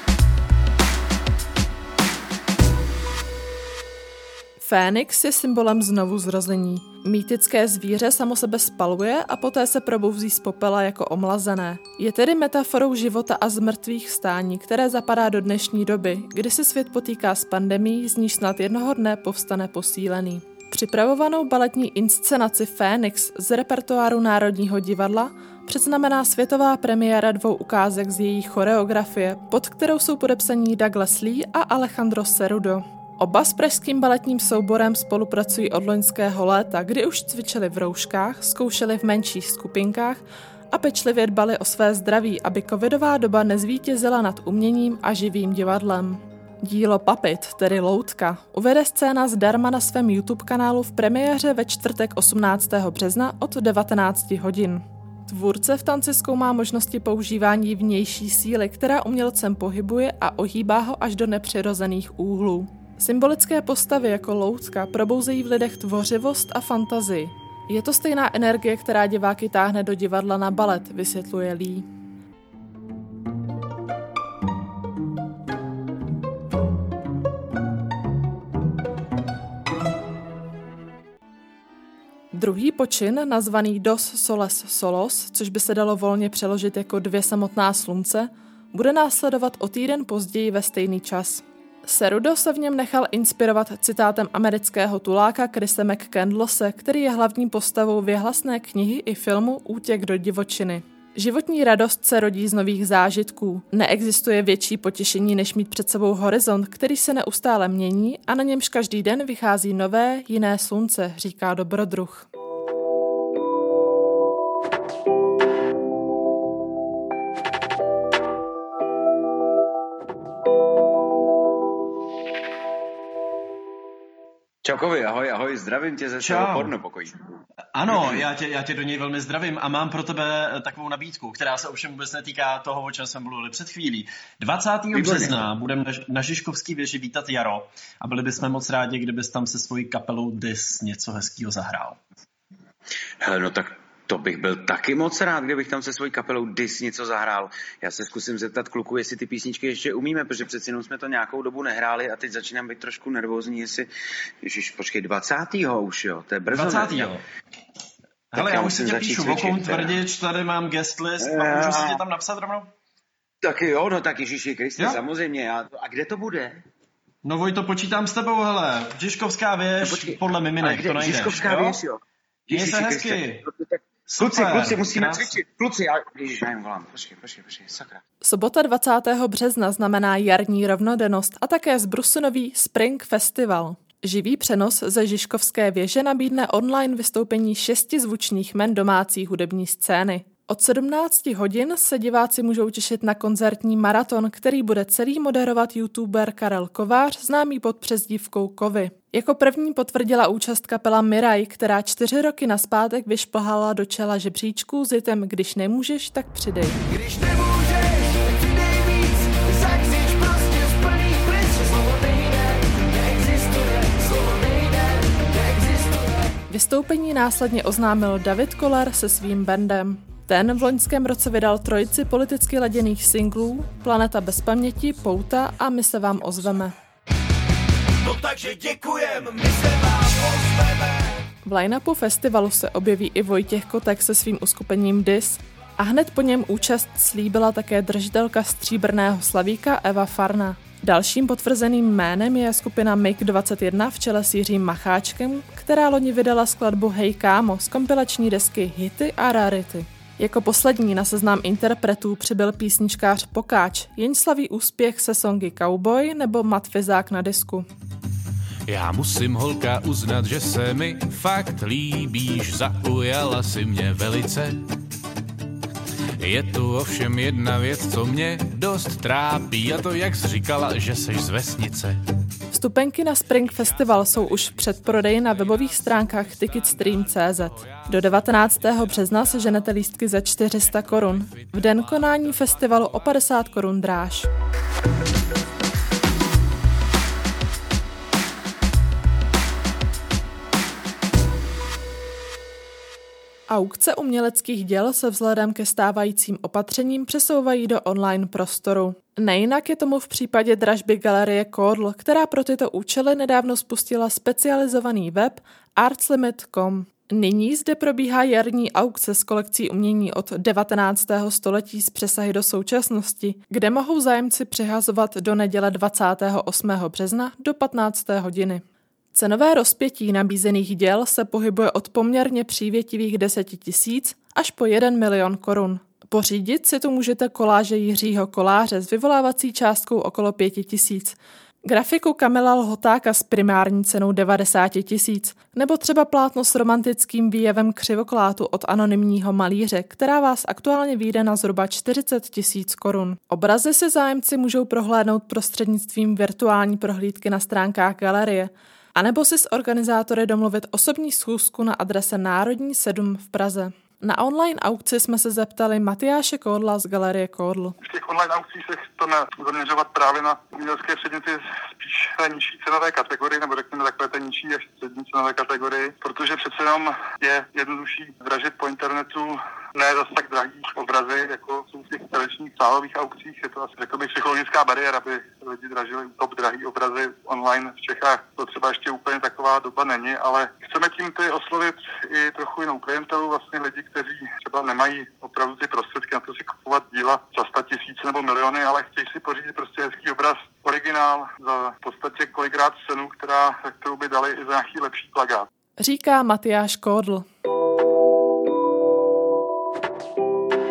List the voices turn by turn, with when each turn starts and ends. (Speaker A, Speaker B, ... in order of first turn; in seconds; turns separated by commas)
Speaker A: 4.6-71.9, Speaker A: 82.3-112.3, Speaker B: 124.6-127.1, Speaker C: 126.2-126.7, Speaker C: 127.7-142.0, Speaker B: 127.9-128.2, Speaker B: 134.9-135.4, Speaker B: 143.2-153.9, Speaker B: 154.4-157.2, Speaker C: 156.5-157.2, Speaker C: 158.3-162.7, Speaker B: 158.3-160.0, Speaker B: 161.2-162.0, Speaker B: 163.4-166.6, Speaker C: 164.8-165.0, Speaker C: 167.2-171.8, Speaker B: 169.8-178.0, Speaker C: 172.5-173.4, Speaker C: 174.1-175.3, Speaker A: 178.2-206.8, Speaker A: 216.5-226.7, Speaker D: 228.8-229.1, Speaker A: 231.4-257.7, Speaker D: 258.7-264.6, Speaker D: 266.2-272.0, Speaker A: 272.5-284.3, Speaker A: 293.5-357.8, Speaker E: 357.8-395.5, Speaker A: 395.8-397.2